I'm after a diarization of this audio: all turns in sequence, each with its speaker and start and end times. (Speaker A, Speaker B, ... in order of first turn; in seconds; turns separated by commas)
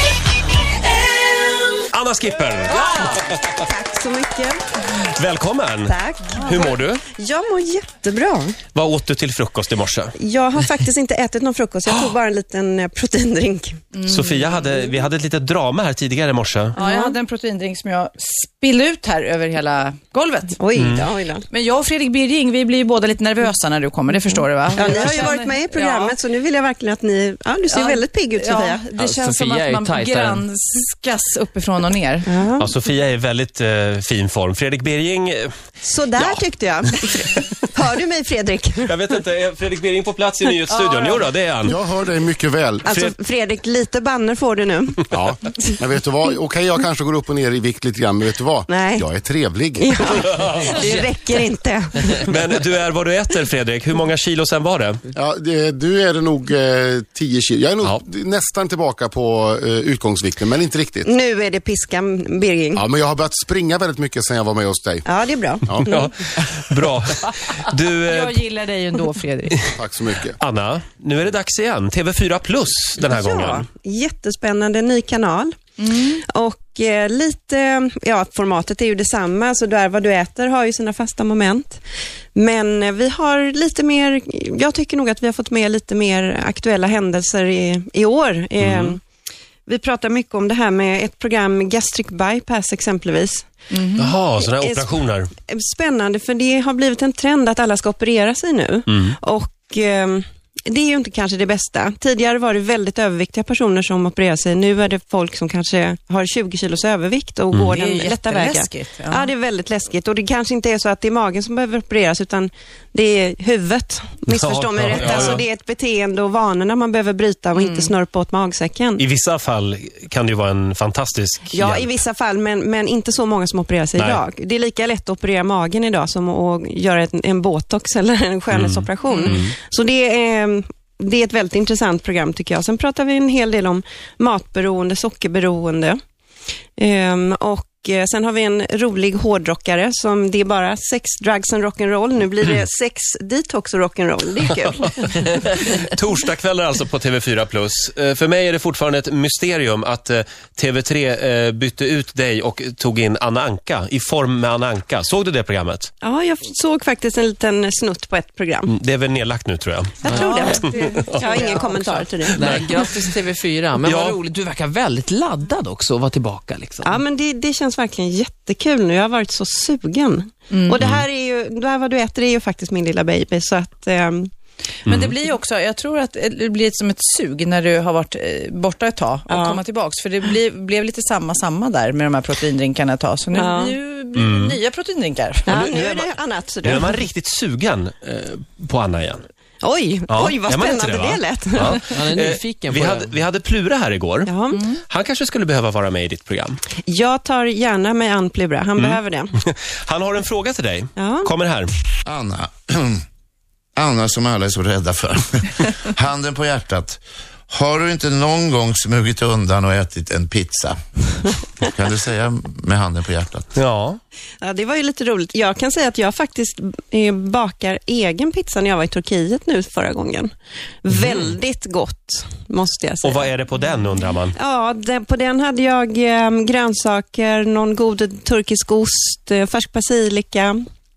Speaker A: 1.9-3.5, Speaker B: 2.7-3.1, Speaker C: 3.6-4.6, Speaker A: 4.9-7.0, Speaker C: 5.8-8.6, Speaker B: 6.3-6.8, Speaker A: 8.7-10.1, Speaker C: 10.2-13.8, Speaker B: 13.9-15.0, Speaker A: 14.1-16.7, Speaker C: 16.7-17.1, Speaker B: 16.8-20.8, Speaker C: 20.6-21.4, Speaker A: 20.8-21.1, Speaker B: 21.5-26.1, Speaker C: 24.7-28.8, Speaker B: 27.7-32.3, Speaker D: 29.0-30.4, Speaker C: 32.3-32.7, Speaker A: 32.6-36.5, Speaker C: 35.8-39.0, Speaker A: 37.0-37.4, Speaker A: 38.9-41.8, Speaker C: 40.7-41.3, Speaker E: 41.6-42.9, Speaker C: 42.9-45.0, Speaker E: 45.1-50.9, Speaker C: 48.7-49.1, Speaker C: 49.8-52.2, Speaker A: 50.4-50.7, Speaker A: 52.2-55.0, Speaker E: 55.1-61.1, Speaker C: 61.0-62.8, Speaker E: 62.7-66.0, Speaker C: 65.0-66.0, Speaker A: 65.9-68.4, Speaker B: 68.1-69.6, Speaker E: 69.8-70.4, Speaker A: 70.4-73.7, Speaker C: 73.0-75.5, Speaker B: 75.8-76.2, Speaker C: 76.3-81.8, Speaker C: 82.3-89.0, Speaker A: 88.6-88.9, Speaker C: 89.7-93.5, Speaker B: 93.7-94.1, Speaker A: 94.0-95.3, Speaker C: 94.4-119.0, Speaker A: 98.9-99.1, Speaker B: 107.7-109.3, Speaker A: 114.3-115.4, Speaker B: 117.5-117.9, Speaker A: 119.0-121.9, Speaker C: 121.5-136.0, Speaker A: 124.0-124.2, Speaker A: 128.5-129.5, Speaker B: 129.1-129.3, Speaker C: 136.8-144.9, Speaker A: 145.0-155.9, Speaker C: 156.0-158.7, Speaker A: 158.7-160.7, Speaker B: 160.0-162.1, Speaker C: 160.1-160.6, Speaker C: 161.2-162.6, Speaker D: 162.3-167.0, Speaker A: 163.7-164.2, Speaker C: 166.8-174.3, Speaker B: 170.5-170.8, Speaker B: 174.8-185.7, Speaker C: 179.3-179.6, Speaker C: 183.3-183.8, Speaker A: 184.1-184.6, Speaker C: 185.5-187.0, Speaker A: 185.5-186.1, Speaker A: 186.6-189.2, Speaker C: 189.6-191.9, Speaker A: 190.1-194.3, Speaker D: 191.8-193.2, Speaker C: 194.2-194.6, Speaker B: 194.5-194.8, Speaker A: 194.8-196.6, Speaker C: 196.8-199.3, Speaker A: 198.8-201.7, Speaker C: 200.9-201.3, Speaker F: 202.1-203.0, Speaker F: 203.8-211.1, Speaker F: 211.6-213.5, Speaker A: 213.5-214.0, Speaker C: 214.4-220.3, Speaker C: 220.8-223.3, Speaker A: 223.0-224.3, Speaker C: 224.3-230.6